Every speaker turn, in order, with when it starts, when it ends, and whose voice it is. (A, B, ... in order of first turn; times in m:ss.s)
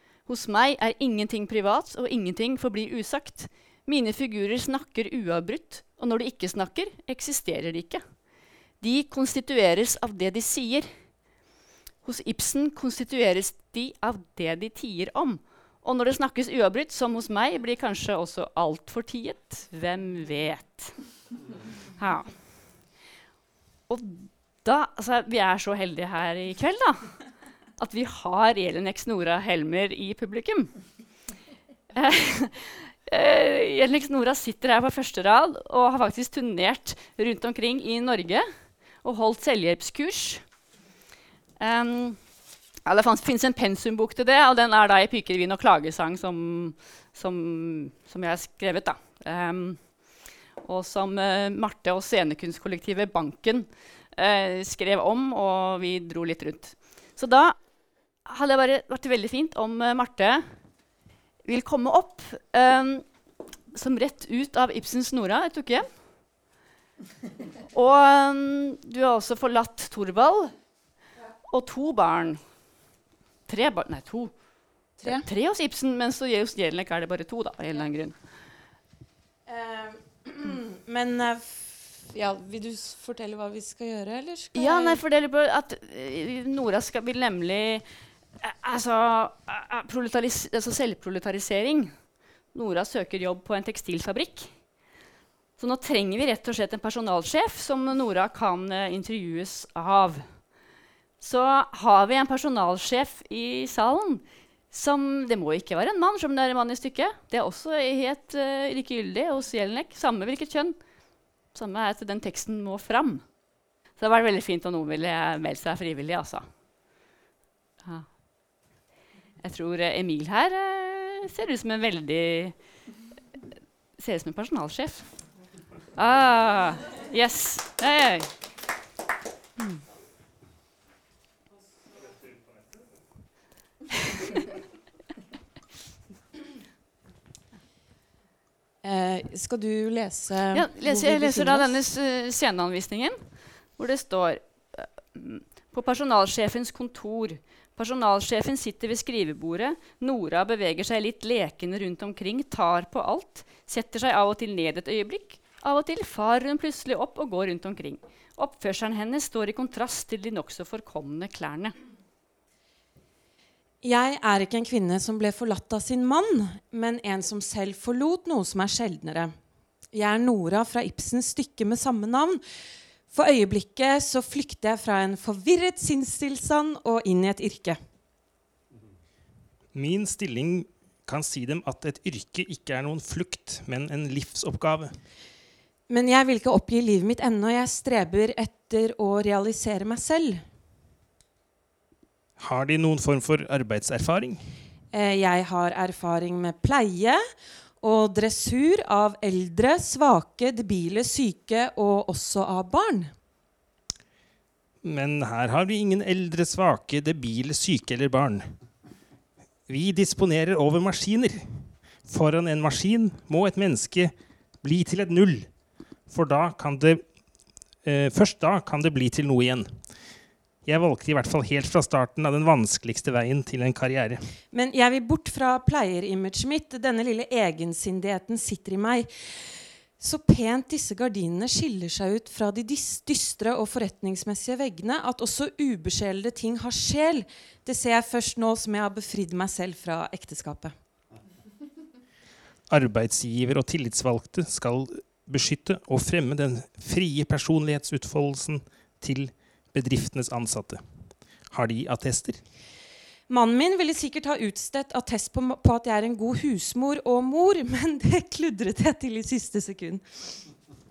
0:00.2-0:08.0 A
0:08.8-0:10.9 A
0:12.0-0:21.0 A
0:22.0-0:22.4 A
0:23.9-0:27.1 A
0:27.8-0:30.7 A
0:31.9-0:38.4 A
0:39.0-0:40.4 A
0:41.6-0:42.2 A
0:42.8-0:49.8 A
0:50.6-0:57.5 A
0:58.3-1:00.4 A
1:01.4-1:03.0 A
1:03.7-1:05.8 A
1:07.7-1:10.5 A
1:11.5-1:12.4 A
1:13.5-1:14.3 A
1:15.0-1:18.1 A
1:19.4-1:25.0 B
1:24.5-1:27.8 A
1:28.4-1:31.9 A
1:32.5-1:34.5 A
1:35.6-1:40.2 A
1:41.2-1:50.7 A
1:51.5-1:53.2 A
1:54.0-1:56.4 A
1:59.4-2:02.5 A
2:04.0-2:05.1 A
2:05.9-2:08.3 A
2:18.8-2:21.8 B
2:20.5-2:23.2 A
2:23.8-2:41.7 A
2:43.8-2:49.3 B
2:49.9-2:52.4 B
2:53.1-2:57.8 B
2:59.7-3:04.9 C
3:05.9-3:10.4 B
3:12.4-3:14.4 C
3:14.9-3:17.2 B
3:17.8-3:23.1 B
3:24.8-3:28.5 C
3:29.7-3:35.5 C
3:36.1-3:37.0 C
3:37.8-3:40.0 C
3:40.6-3:44.2 C
3:44.5-4:00.7 B
4:02.7-4:10.8 C
4:11.5-4:12.4 C
4:13.3-4:20.4 B